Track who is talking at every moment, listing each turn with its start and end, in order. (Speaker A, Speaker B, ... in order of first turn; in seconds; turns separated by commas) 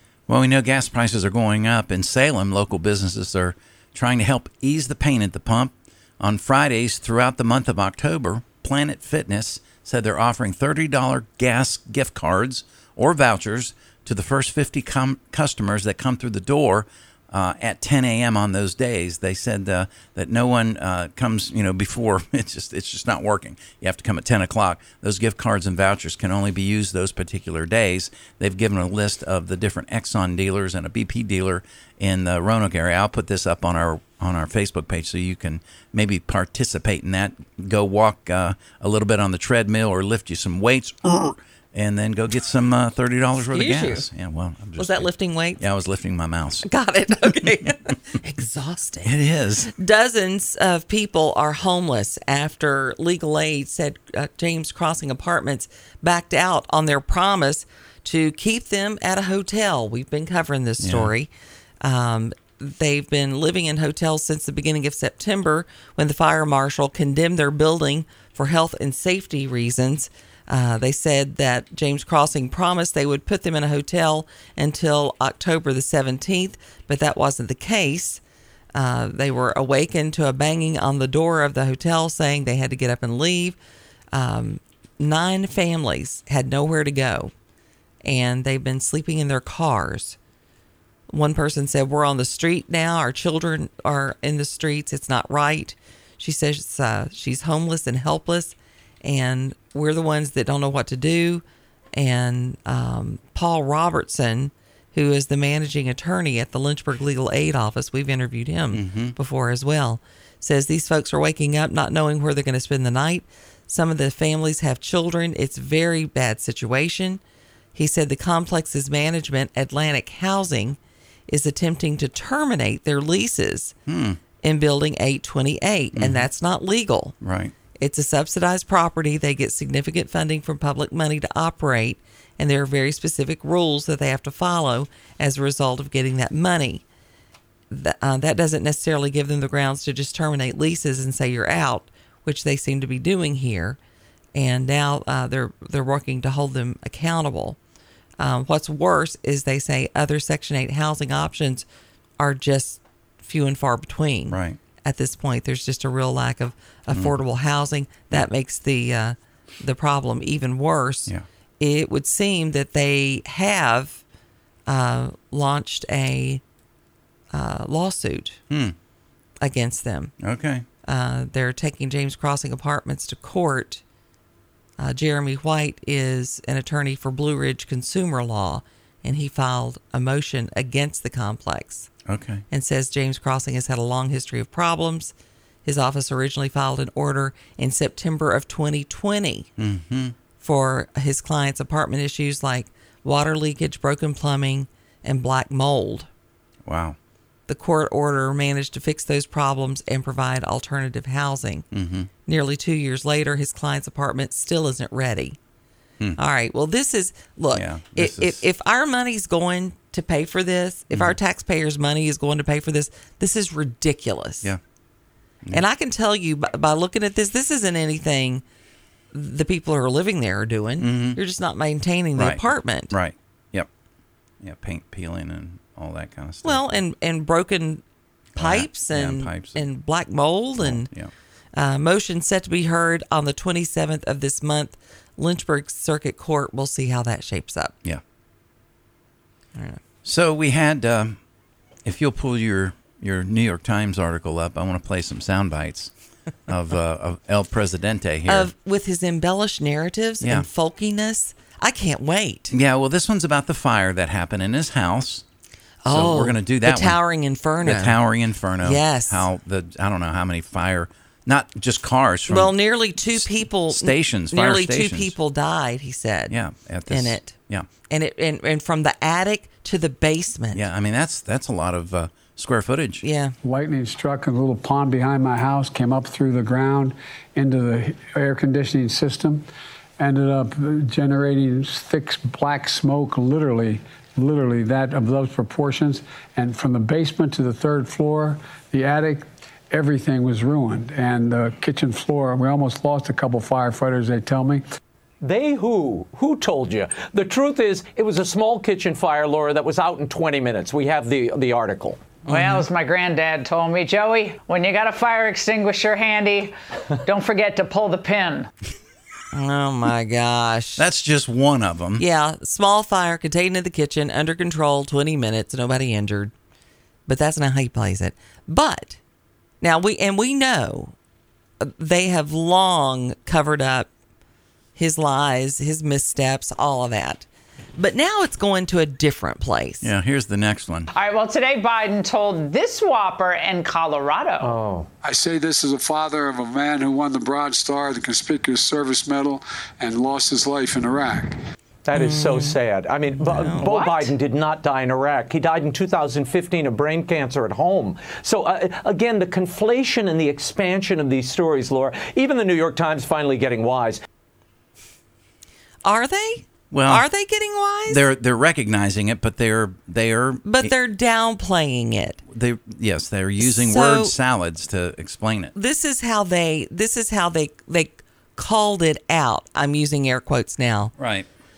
Speaker A: 0.3-46.7, Speaker B: 43.5-44.0, Speaker B: 44.8-45.6, Speaker B: 46.6-49.1, Speaker A: 49.0-49.7, Speaker B: 49.7-61.3, Speaker A: 60.8-61.1, Speaker B: 61.8-78.2, Speaker B: 78.7-83.6, Speaker B: 84.1-87.3, Speaker B: 88.0-90.2, Speaker B: 91.1-101.4, Speaker B: 101.9-117.2, Speaker A: 108.7-109.2, Speaker B: 117.7-123.7, Speaker A: 123.8-124.2, Speaker B: 124.4-127.1, Speaker A: 125.9-126.3, Speaker A: 127.2-127.5, Speaker B: 127.8-136.8, Speaker B: 137.7-143.8, Speaker B: 144.3-147.6, Speaker B: 148.2-151.7, Speaker B: 152.2-164.0, Speaker A: 154.3-154.6, Speaker B: 164.7-166.4, Speaker B: 167.3-168.4, Speaker A: 168.5-168.7, Speaker B: 169.4-170.1, Speaker A: 170.2-170.6, Speaker B: 170.8-173.8, Speaker B: 174.8-181.9, Speaker A: 182.1-182.4, Speaker B: 182.5-185.1, Speaker B: 185.6-189.5, Speaker A: 189.6-190.1, Speaker B: 190.4-196.1, Speaker A: 196.6-197.0, Speaker B: 197.5-201.7, Speaker A: 201.7-202.1, Speaker B: 202.2-205.4, Speaker B: 206.2-214.5, Speaker A: 207.5-208.4, Speaker A: 210.9-211.2, Speaker B: 215.5-218.4, Speaker B: 219.1-222.9, Speaker A: 220.8-221.2, Speaker A: 222.2-223.7, Speaker A: 224.4-226.7, Speaker B: 226.4-227.8, Speaker A: 228.3-229.6, Speaker B: 228.4-230.9, Speaker A: 230.6-231.1, Speaker B: 231.5-237.7, Speaker A: 240.0-241.2, Speaker A: 241.8-245.9, Speaker A: 246.5-248.5, Speaker B: 248.2-252.5, Speaker A: 250.2-250.5, Speaker A: 252.5-255.2, Speaker B: 255.8-258.0, Speaker A: 255.9-257.0, Speaker A: 257.6-262.5, Speaker B: 258.6-259.2, Speaker B: 262.3-266.3, Speaker A: 263.1-265.1, Speaker A: 266.3-267.7, Speaker B: 266.9-267.3, Speaker B: 267.9-270.6, Speaker A: 270.5-273.0, Speaker B: 273.0-273.3, Speaker C: 273.4-279.4, Speaker C: 280.0-294.6, Speaker D: 295.2-302.2, Speaker B: 302.3-302.6, Speaker E: 302.3-306.5, Speaker E: 307.0-308.5, Speaker B: 309.3-310.8, Speaker A: 310.8-312.0, Speaker B: 312.0-316.3, Speaker B: 317.1-319.0, Speaker B: 319.6-320.9, Speaker B: 321.6-323.9, Speaker B: 324.8-327.2, Speaker B: 327.8-329.9, Speaker A: 329.8-330.9, Speaker E: 330.9-334.5, Speaker D: 334.4-334.9, Speaker F: 335.0-341.4, Speaker D: 341.8-354.0, Speaker B: 341.9-342.6, Speaker B: 343.2-344.0, Speaker B: 355.8-358.0, Speaker A: 356.7-357.1, Speaker A: 357.9-360.7, Speaker B: 360.4-362.2, Speaker A: 362.3-365.5, Speaker B: 363.4-364.1, Speaker B: 365.5-370.9, Speaker A: 371.0-371.3